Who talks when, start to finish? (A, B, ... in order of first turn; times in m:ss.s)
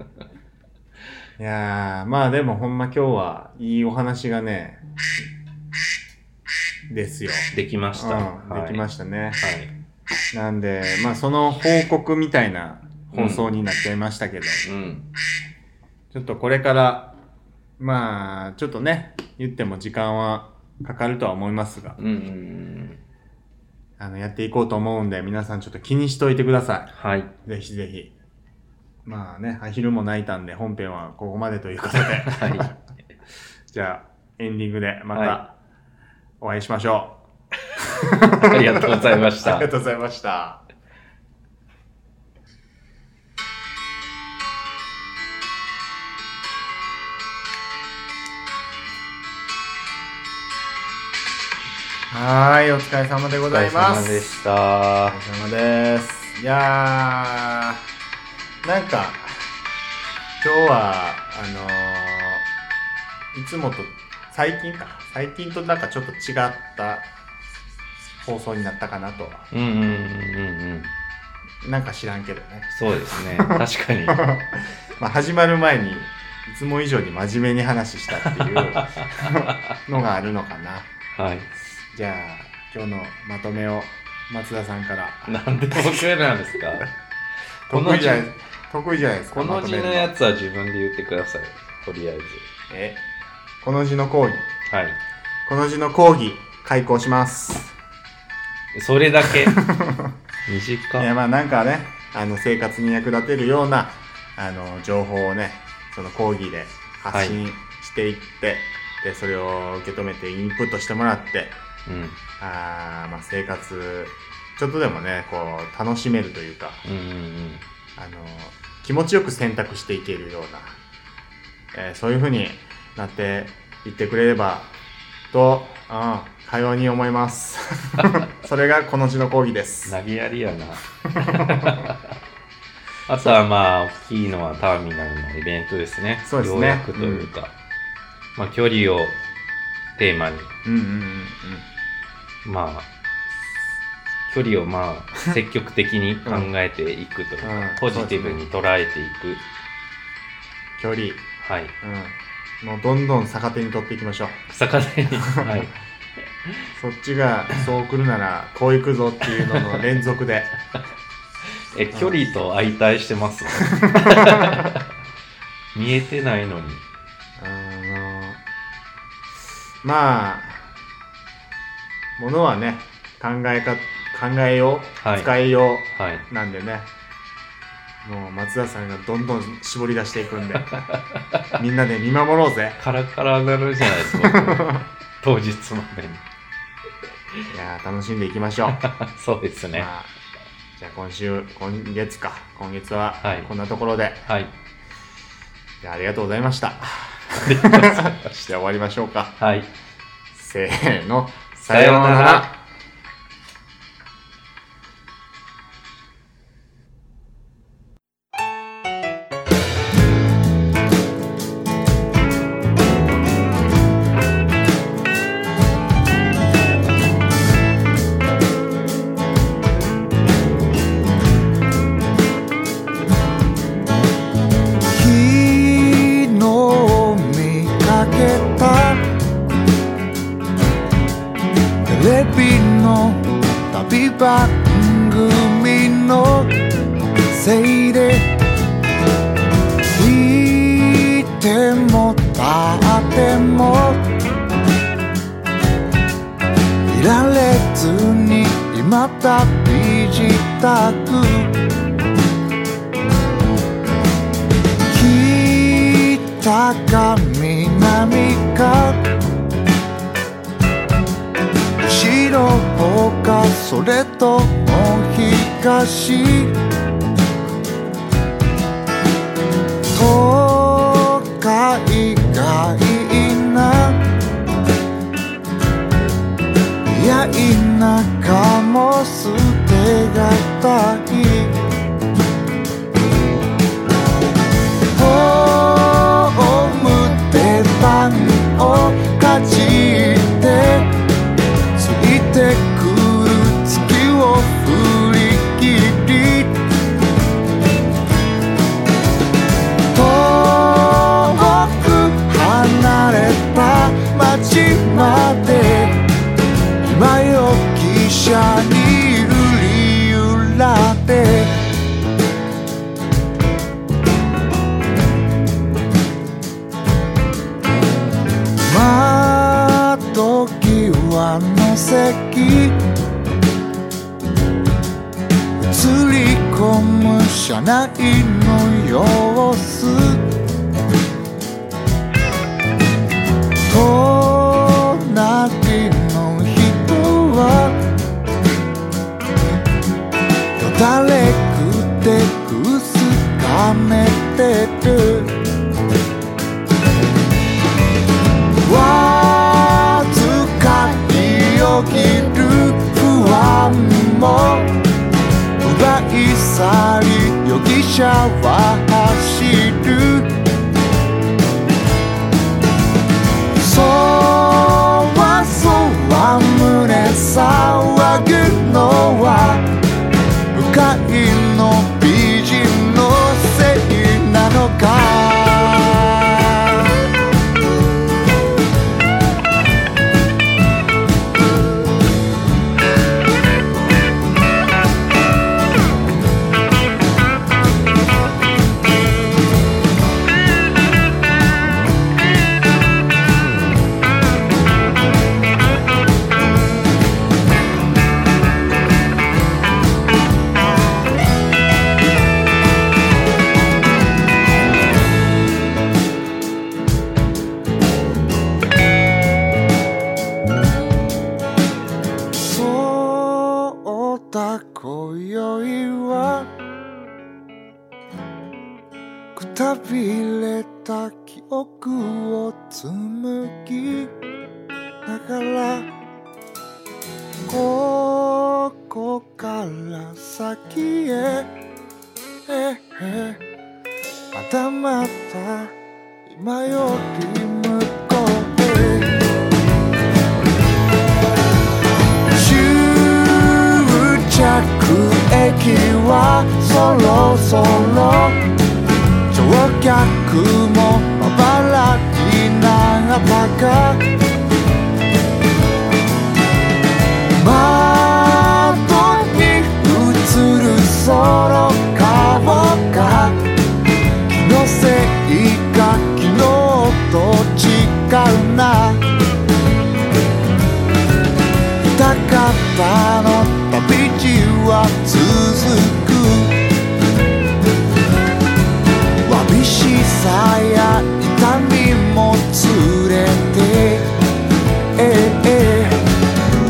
0:01.4-0:04.8 A
0:06.9-0:09.4 A
0:07.5-0:08.9 B
0:09.4-0:09.7 B
0:10.3-0:14.6 A
0:13.1-0:13.5 B
0:14.6-0:15.1 B
0:16.1-0:17.2 A
0:17.8-0:22.0 A
0:22.0-0:23.0 B
0:24.0-0:26.9 A
0:26.9-0:27.3 B
0:27.4-0:28.1 A
0:29.0-0:32.8 A
0:32.3-0:32.7 B
0:33.7-0:35.6 A
0:35.1-0:35.4 B
0:36.4-0:37.2 A
0:37.8-0:40.7 A
0:38.3-0:39.7 B
0:52.1-0:54.4 A
0:53.5-0:55.2 B
0:55.1-0:57.8 A
0:58.6-0:59.5 A
1:00.4-1:02.5 A
1:03.3-1:07.1 A
1:08.2-1:09.5 A
1:09.5-1:10.9 B
1:11.6-1:20.9 A
1:12.7-1:14.3 B
1:18.2-1:19.8 B
1:21.1-1:21.5 B
1:21.9-1:26.0 A
1:25.3-1:26.9 B
1:27.7-1:28.3 B
1:27.7-1:30.1 A
1:29.3-1:32.5 B
1:32.7-1:33.0 A
1:33.6-1:34.5 A
1:34.7-1:35.0 B
1:35.4-1:37.8 A
1:38.7-1:39.8 B
1:39.4-1:40.1 A
1:40.5-1:41.1 B
1:41.0-1:51.6 A
1:47.1-1:47.4 B
1:51.9-1:52.2 B
1:52.4-1:56.8 A
1:56.8-1:57.6 B
1:58.0-2:00.8 A
2:01.7-2:04.7 A
2:05.3-2:10.0 A
2:09.9-2:12.0 B
2:11.1-2:11.9 A
2:13.1-2:17.5 B
2:16.2-2:17.3 A
2:18.4-2:19.2 B
2:20.0-2:20.5 B
2:20.6-2:21.7 A
2:22.4-2:23.6 B
2:24.3-2:29.5 B
2:27.4-2:28.4 A
2:30.8-2:31.3 A
2:31.4-2:31.8 B
2:31.8-2:34.4 A
2:34.5-2:35.8 B
2:35.2-2:35.7 A
2:36.4-2:36.7 B
2:36.8-2:40.5 A
2:39.4-2:39.8 B
2:41.6-2:44.9 B
2:43.6-2:44.7 A
2:45.8-2:46.8 B
2:47.4-2:48.4 A
2:49.8-2:50.7 A
2:52.2-2:56.9 A
2:55.0-2:55.3 B
2:55.9-2:56.3 B
2:58.0-3:00.9 A
3:00.7-3:01.5 B
3:01.6-3:02.8 A
3:02.8-3:06.2 B
3:04.0-3:04.8 A
3:07.5-3:09.0 A
3:08.7-3:09.9 B
3:09.7-3:10.1 A
3:10.8-3:14.3 A
3:13.2-3:13.5 B
3:14.3-3:14.5 B
3:15.8-3:19.4 A
3:17.3-3:18.6 B
3:19.4-3:19.7 B
3:20.3-3:22.6 A
3:21.7-3:22.5 B
3:44.9-3:49.1 C
3:51.9-3:56.6 C
3:57.3-3:58.3 C
3:59.9-4:04.1 C
4:06.9-4:11.6 C
4:14.9-4:19.1 C
4:21.8-4:26.6 C
4:29.9-4:34.0 C
4:36.9-4:41.6 C
4:44.9-4:50.9 C
4:51.8-4:56.6 C
4:59.9-5:06.0 C
5:06.8-5:11.6 C
5:18.6-5:22.8 C
5:25.7-5:30.3 C
5:33.7-5:37.8 C
5:40.6-5:45.4 C
5:48.6-5:54.7 C
5:55.6-6:00.4 C
6:03.6-6:09.7 C
6:10.5-6:17.0 C
6:52.4-6:56.5 C
6:59.4-7:04.1 C
7:05.1-7:05.9 C
7:07.5-7:11.5 C
7:12.5-7:13.4 C
7:14.3-7:15.7 C
7:16.3-7:19.2 C
7:22.3-7:28.4 C
7:29.3-7:34.1 C
7:37.4-7:43.4 C
7:44.3-7:49.0 C
7:52.0-7:56.6 C
7:59.2-8:04.1 C
8:05.0-8:06.0 C